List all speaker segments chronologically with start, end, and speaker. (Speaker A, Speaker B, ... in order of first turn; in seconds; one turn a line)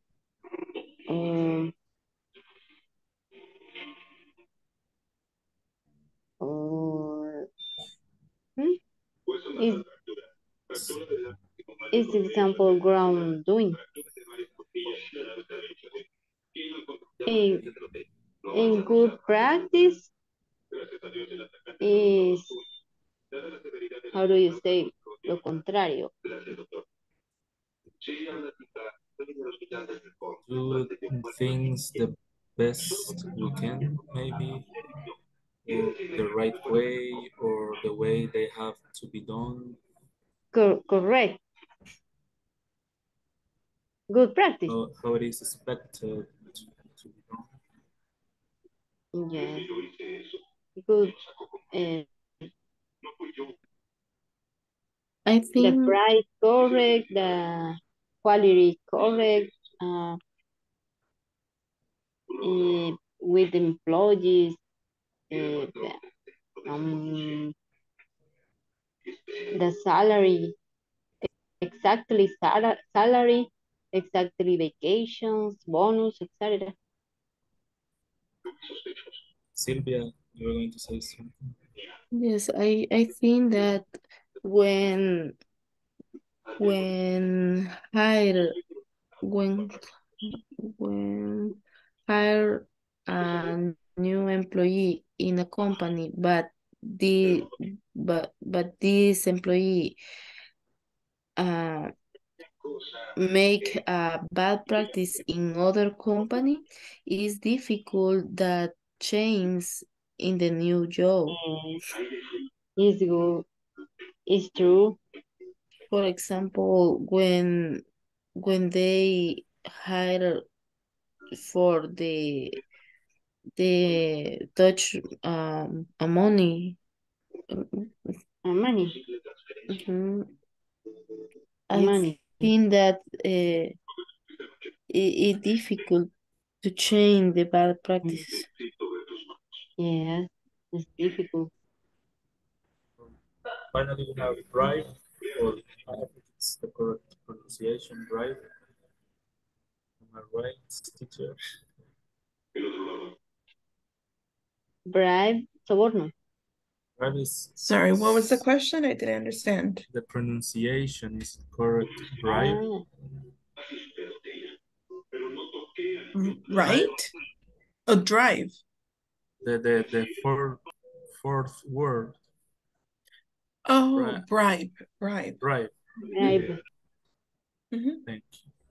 Speaker A: 1.1-1.7
Speaker A: 6.4-7.5
Speaker A: 9.4-9.9
Speaker A: 11.9-13.8
Speaker A: 14.8-15.4
Speaker A: 17.2-17.7
Speaker A: 18.5-20.1
Speaker A: 21.8-22.5
Speaker A: 24.1-26.6
Speaker B: 30.4-34.7
Speaker B: 35.7-39.8
Speaker A: 40.5-41.4
Speaker A: 44.1-44.7
Speaker B: 44.7-47.5
Speaker A: 49.1-49.8
Speaker A: 50.8-51.1
Speaker A: 51.7-52.1
Speaker C: 55.3-56.0
Speaker A: 55.6-60.2
Speaker A: 62.4-64.6
Speaker A: 65.3-66.0
Speaker A: 66.7-67.5
Speaker A: 69.6-70.6
Speaker A: 71.6-76.7
Speaker B: 79.6-81.3
Speaker C: 82.1-83.9
Speaker C: 84.4-85.3
Speaker C: 86.6-88.6
Speaker C: 89.2-100.0
Speaker C: 101.4-101.9
Speaker C: 103.2-111.4
Speaker A: 111.3-111.8
Speaker A: 112.8-113.5
Speaker A: 114.3-115.0
Speaker C: 115.9-117.8
Speaker C: 118.4-120.5
Speaker C: 121.3-122.6
Speaker C: 123.6-126.8
Speaker C: 127.5-128.2
Speaker A: 128.4-129.0
Speaker C: 129.7-130.3
Speaker C: 131.7-133.8
Speaker A: 131.7-132.5
Speaker C: 134.9-136.1
Speaker C: 136.6-138.4
Speaker A: 139.8-141.5
Speaker B: 143.7-148.4
Speaker B: 150.0-151.4
Speaker A: 154.9-156.1
Speaker B: 157.0-158.4
Speaker D: 157.6-159.8
Speaker B: 159.9-162.6
Speaker A: 162.3-162.8
Speaker D: 166.2-167.1
Speaker D: 167.9-168.6
Speaker B: 169.4-170.6
Speaker B: 171.1-172.2
Speaker D: 173.7-175.4
Speaker B: 173.9-174.3
Speaker B: 175.4-176.6
Speaker A: 176.1-176.5
Speaker D: 177.7-178.0
Speaker B: 178.1-178.5